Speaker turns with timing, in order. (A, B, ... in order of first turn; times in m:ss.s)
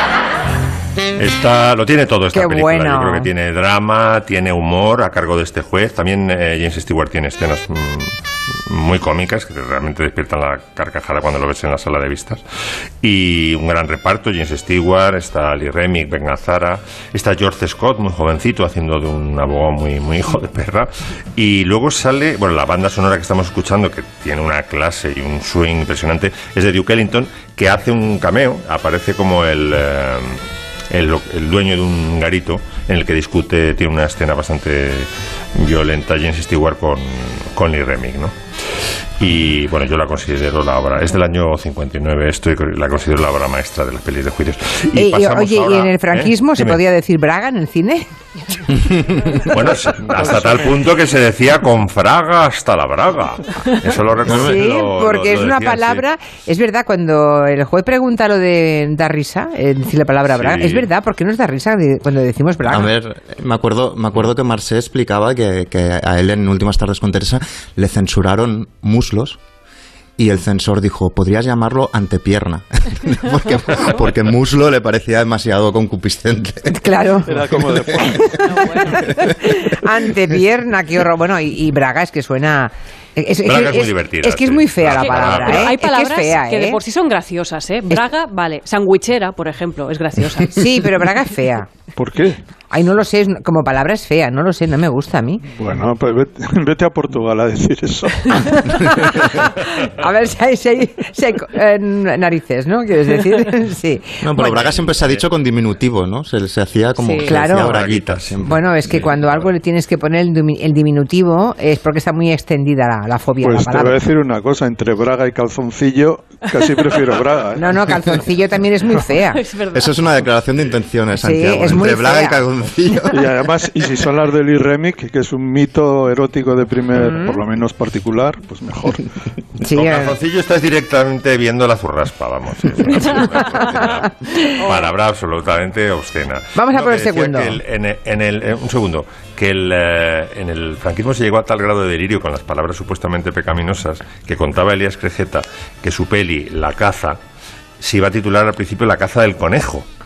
0:01.2-0:12.4 A
0:02.3-0:03.3 B
0:13.0-0:38.4 A
0:39.2-0:46.8 A
0:45.0-0:48.1 B
0:48.9-0:49.2 C
0:49.5-0:56.0 A
0:54.2-0:54.6 C
0:54.3-1:02.9 B
1:00.3-1:00.9 A
1:02.6-1:09.4 C
1:10.2-1:16.8 C
1:16.7-1:17.4 B
1:17.3-1:18.2 D
1:17.6-1:18.1 C
1:18.4-1:19.1 E
1:19.4-1:26.8 B
1:23.4-1:25.7 A
1:25.0-1:30.6 E
1:30.5-1:31.7 B
1:31.9-1:32.4 D
1:32.7-1:35.4 B
1:35.5-1:38.6 D
1:38.9-1:44.6 B
1:44.2-1:48.6 C
1:44.6-1:45.2 A
1:47.0-1:47.3 E
1:47.2-1:47.8 B
1:47.6-1:49.5 A
1:48.4-1:54.0 B
1:53.4-1:57.8 D
1:57.6-1:59.4 B
1:59.3-1:59.9 E
1:59.7-2:03.2 C
2:01.2-2:02.4 B
2:03.1-2:09.0 D
2:07.0-2:07.4 B
2:09.6-2:10.2 B
2:09.7-2:27.2 A
2:13.4-2:14.0 B
2:16.6-2:17.6 B
2:27.8-2:29.8 A